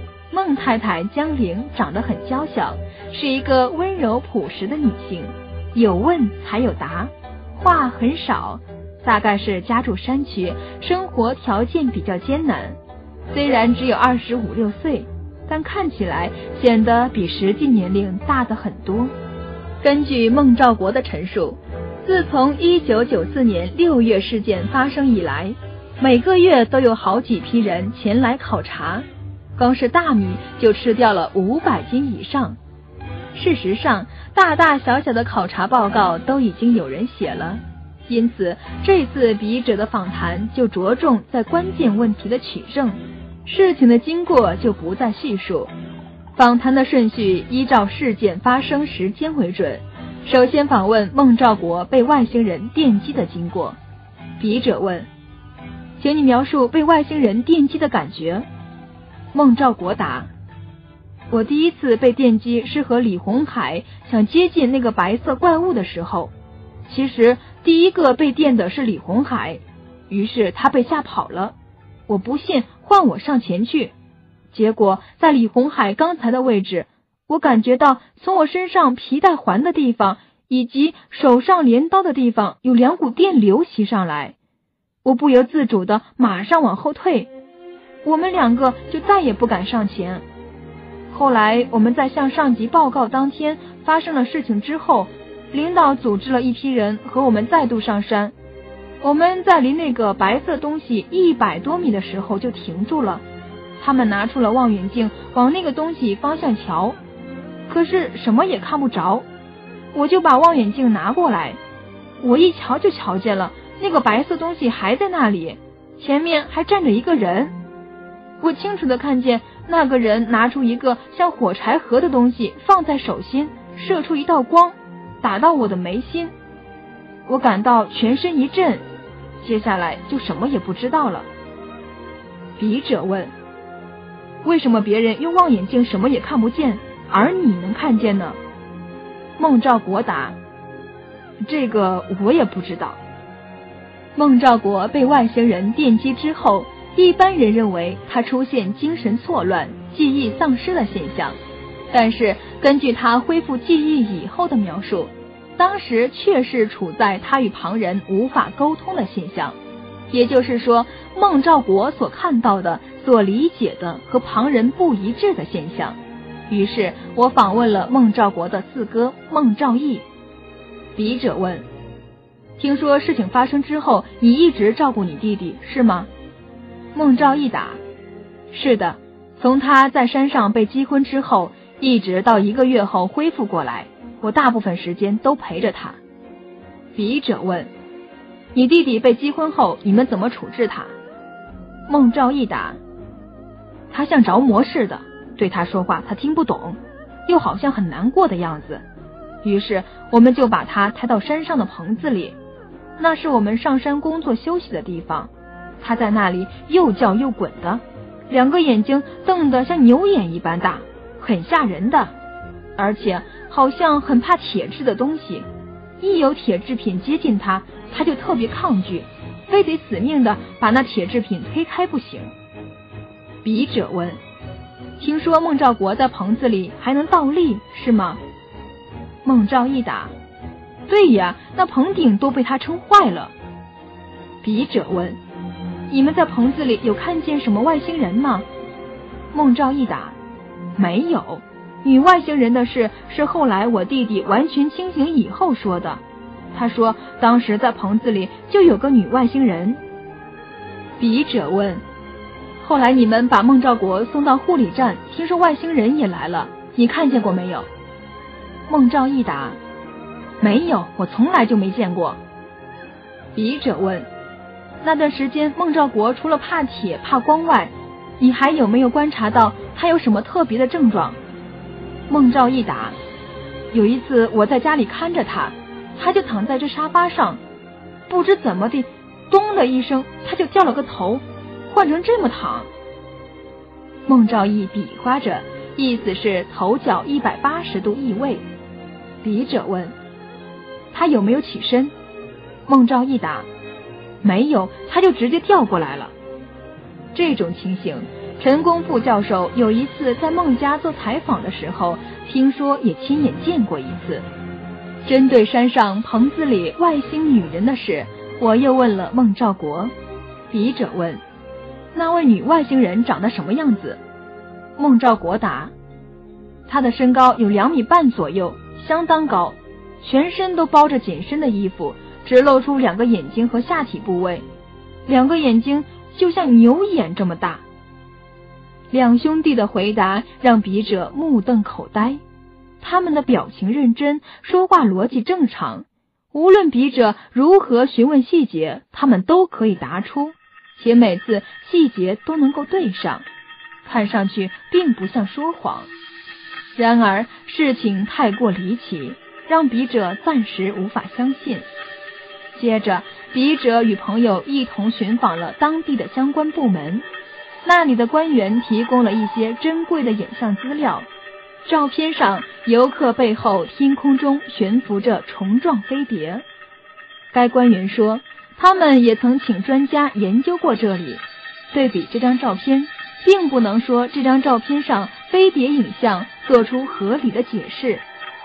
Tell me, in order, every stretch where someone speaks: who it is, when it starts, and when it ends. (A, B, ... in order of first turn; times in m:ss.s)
0:00.3-0:12.8 A
0:13.3-0:19.1 A
0:19.8-0:29.0 A
0:29.6-0:32.6 A
0:33.3-0:45.7 A
0:46.4-0:53.8 A
0:54.4-0:55.1 A
0:56.0-0:58.4 A
0:59.3-1:00.3 A
1:01.3-1:06.3 A
1:06.8-1:11.5 A
1:12.1-1:13.9 A
1:14.5-1:24.4 A
1:25.0-1:27.3 A
1:28.0-1:30.2 A
1:31.1-1:38.3 A
1:39.0-1:43.2 A
1:43.8-1:47.0 A
1:47.7-1:49.2 A
1:49.9-1:51.6 A
1:52.2-1:57.5 A
1:58.4-2:06.3 A
2:07.2-2:08.8 A
2:09.4-2:11.3 A
2:12.6-2:13.3 A
2:14.4-2:18.4 A
2:19.4-2:20.4 A
2:21.4-2:23.0 A
2:24.2-2:31.4 A
2:31.9-2:39.6 A
2:40.1-2:46.0 A
2:46.5-2:50.0 A
2:51.0-2:51.6 A
2:52.6-2:56.1 A
2:56.9-2:57.8 A
2:58.5-3:06.0 A
3:07.0-3:07.7 A
3:08.5-3:10.9 A
3:11.9-3:12.8 A
3:13.9-3:18.8 A
3:19.4-3:22.4 A
3:23.0-3:32.1 A
3:32.8-3:35.4 A
3:36.0-3:42.3 A
3:43.4-3:44.2 A
3:45.0-3:48.2 A
3:49.2-3:50.1 A
3:50.9-3:53.3 A
3:54.4-3:55.2 A
3:55.9-3:58.4 A
3:59.3-4:00.2 A
4:00.8-4:06.0 A
4:06.5-4:09.8 A
4:11.0-4:11.8 A
4:12.6-4:17.7 A
4:18.7-4:19.6 A
4:20.4-4:22.2 A
4:23.3-4:24.1 A
4:24.8-4:31.2 A
4:32.1-4:33.0 A
4:33.7-4:37.4 A
4:38.1-4:42.7 A
4:44.1-4:48.4 A
4:49.2-4:49.9 A
4:50.9-4:51.9 A
4:52.7-4:53.5 A
4:54.2-4:56.1 A
4:57.1-5:04.2 A
5:05.0-5:09.9 A
5:10.5-5:11.2 A
5:11.9-5:14.0 A
5:14.8-5:15.7 A
5:16.7-5:24.4 A
5:25.0-5:27.6 A
5:28.9-5:32.2 A
5:32.8-5:43.2 A
5:43.8-5:45.9 A
5:46.8-5:51.7 A
5:52.5-5:57.0 A
5:57.6-6:01.1 A
6:01.6-6:06.4 A
6:07.3-6:18.0 A